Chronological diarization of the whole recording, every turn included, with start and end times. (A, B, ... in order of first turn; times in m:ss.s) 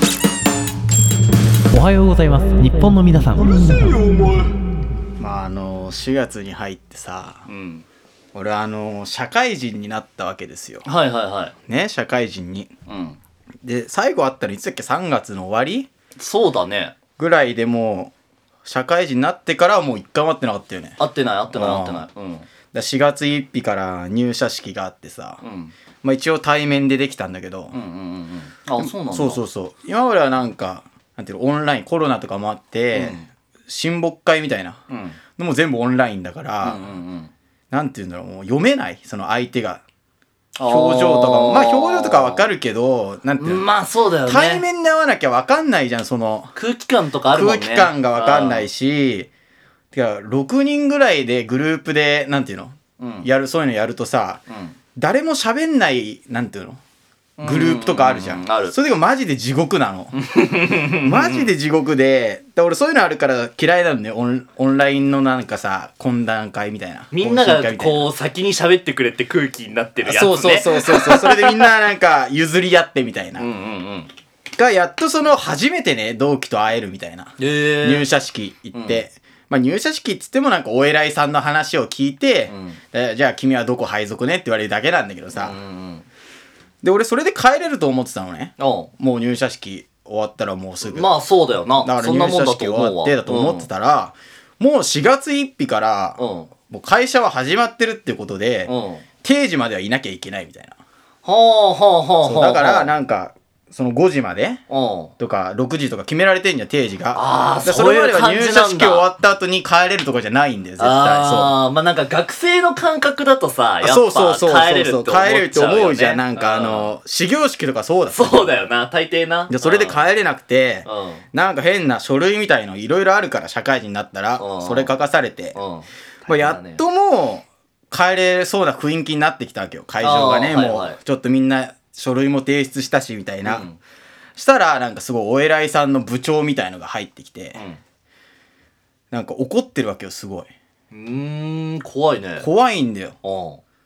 0:01.7-0:04.0 A
0:03.4-0:04.5 B
0:05.2-0:07.4 B
0:07.5-0:07.9 C
0:08.3-0:10.9 B
0:10.8-0:11.6 C
0:11.7-0:12.7 B
0:12.9-0:13.2 C
0:13.6-0:15.9 B
0:16.2-0:17.0 C
0:17.2-0:18.1 B
0:18.6-0:21.0 B
0:21.0-0:22.5 C
0:21.5-0:22.0 B
0:22.7-0:25.4 B
0:25.4-0:25.7 C
0:26.0-0:27.8 B
0:27.7-0:29.4 C
0:28.8-0:34.8 B
0:32.9-0:33.2 C
0:34.9-0:35.2 C
0:35.4-0:36.9 B
0:36.6-0:37.3 C
0:37.7-0:39.8 B
0:40.6-0:42.5 C
0:40.6-0:43.7 B
0:43.4-0:44.6 C
0:44.3-0:46.5 B
0:46.5-0:48.7 C
0:47.3-0:49.3 B
0:49.9-0:54.4 B
0:53.0-0:53.3 C
0:54.5-0:54.8 C
0:55.0-0:56.8 B
0:57.4-0:58.8 C
0:57.4-1:00.2 B
1:00.1-1:01.5 C
1:01.0-1:08.1 B
1:07.1-1:11.7 C
1:10.0-1:13.5 B
1:13.4-1:14.1 C
1:14.6-1:25.6 B
1:17.4-1:18.1 C
1:18.7-1:19.0 C
1:22.5-1:22.8 C
1:25.4-1:26.1 C
1:26.8-1:31.1 B
1:28.6-1:28.9 C
1:30.8-1:33.7 C
1:31.8-1:40.8 B
1:36.2-1:36.5 C
1:38.7-1:39.0 C
1:41.2-1:43.0 C
1:42.2-1:44.6 B
1:44.7-1:45.1 C
1:45.2-1:51.6 B
1:47.1-1:49.1 C
1:50.8-1:57.0 C
1:53.8-1:58.5 B
1:58.1-2:00.0 C
1:59.5-2:05.6 B
2:00.8-2:01.2 C
2:04.4-2:04.9 C
2:05.6-2:06.8 C
2:06.3-2:13.7 B
2:10.0-2:11.0 C
2:13.4-2:13.8 C
2:14.4-2:17.6 B
2:17.6-2:17.8 C
2:19.1-2:20.5 B
2:20.9-2:22.5 C
2:22.4-2:23.2 B
2:23.2-2:23.6 C